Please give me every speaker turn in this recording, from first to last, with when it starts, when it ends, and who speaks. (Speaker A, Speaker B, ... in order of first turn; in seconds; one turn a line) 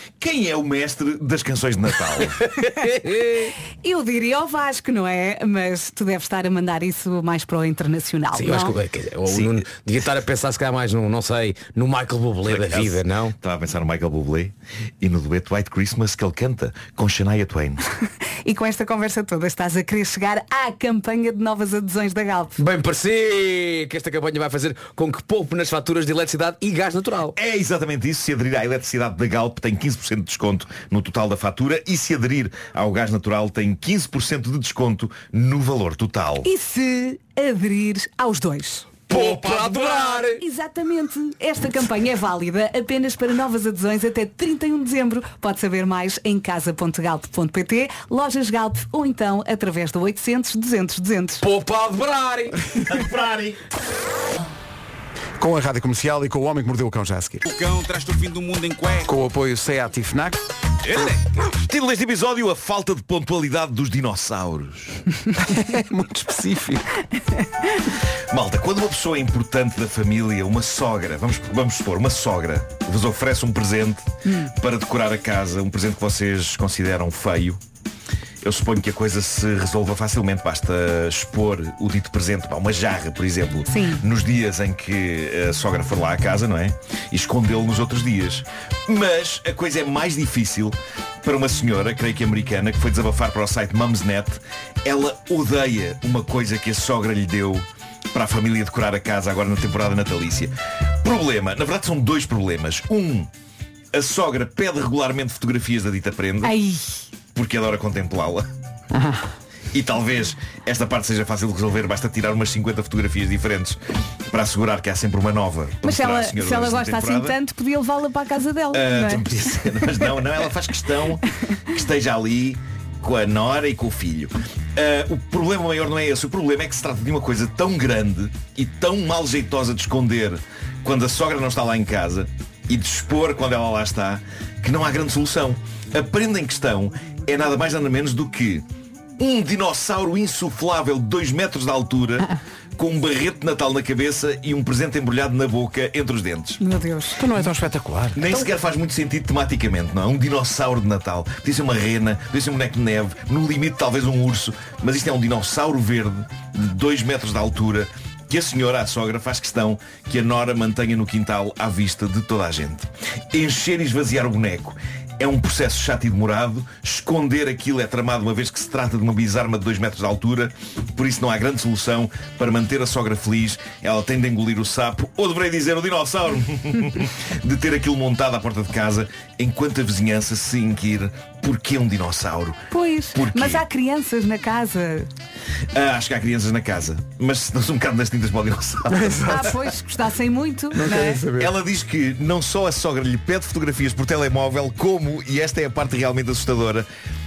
Speaker A: 0.2-2.4
Speaker B: 2.4-3.5
Speaker C: 3.7-8.8
Speaker B: 8.3-13.3
Speaker A: 9.3-9.6
Speaker A: 12.5-17.8
Speaker C: 18.4-22.6
Speaker B: 22.6-27.4
Speaker A: 27.3-36.5
Speaker C: 36.4-51.4
Speaker B: 39.1-40.4
Speaker A: 39.1-39.7
Speaker B: 51.4-52.6
Speaker A: 52.8-53.6
Speaker D: 55.4-57.4
Speaker E: 57.5-59.1
Speaker D: 59.1-60.4
Speaker E: 60.8-61.3
Speaker A: 61.5-65.0
Speaker D: 65.4-67.0
Speaker A: 68.3-77.6
Speaker C: 74.3-74.5
Speaker A: 78.4-103.3
Speaker C: 83.7-84.0
Speaker A: 103.9-106.5
Speaker C: 106.4-107.0
Speaker A: 107.3-108.5
Speaker D: 108.9-109.2
Speaker A: 109.7-117.4
Speaker C: 115.8-119.3
Speaker A: 118.7-138.7
Speaker A: 139.2-146.6
Speaker C: 146.6-147.2
Speaker D: 147.2-148.2
Speaker A: 148.2-183.6
Speaker C: 182.7-185.1
Speaker A: 185.7-189.4
Speaker D: 188.9-189.6
Speaker C: 189.3-191.2
Speaker D: 190.7-191.6
Speaker A: 191.3-196.9